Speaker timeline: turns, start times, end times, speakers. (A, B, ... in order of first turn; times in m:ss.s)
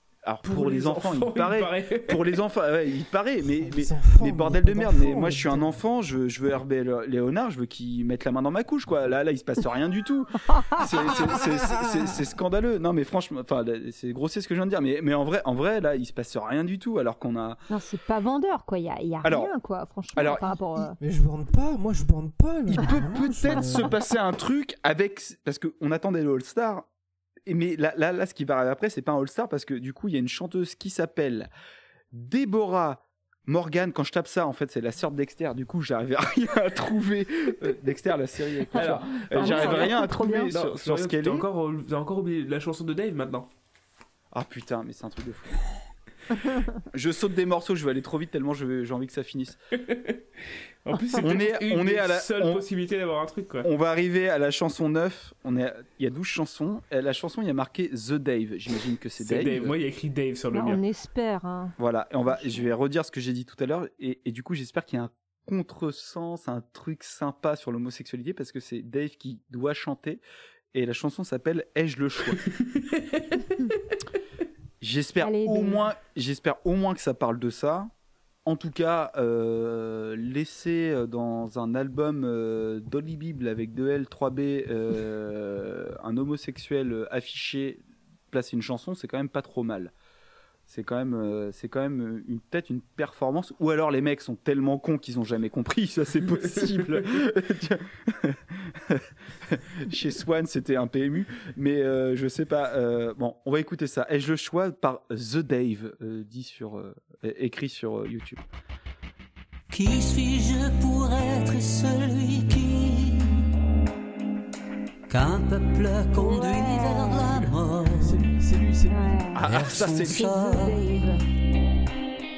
0:00.2-0:17.6 A
0:00.4-0:02.4 B
0:03.4-0:05.8 C
0:11.5-0:11.9 C
0:17.7-0:21.0 D
0:19.2-0:19.5 A
0:20.2-0:20.9 A
0:21.0-0:23.9 C
0:22.7-0:26.9 A
0:27.5-0:31.5 A
0:32.1-0:41.4 A
0:38.7-0:40.5 D
0:38.8-0:43.5 B
0:44.3-0:45.6 A
0:46.9-0:49.6 A
0:50.8-0:53.7 B
0:51.2-0:52.6 A
0:53.6-0:59.8 A
0:59.2-1:00.8 B
1:00.5-1:01.8 D
1:01.8-1:10.2 A
1:02.3-1:02.7 D
1:10.7-1:12.4 A
1:14.8-1:17.9 A
1:15.2-1:15.8 D
1:18.4-1:29.9 A
1:30.7-1:48.4 A
1:49.7-1:53.4 E
1:55.1-1:58.2 E
1:56.2-1:57.4 D
1:58.0-1:59.2 C
1:58.9-1:59.4 D
1:59.4-2:00.6 A
1:59.4-2:00.9 E
2:00.2-2:01.2 D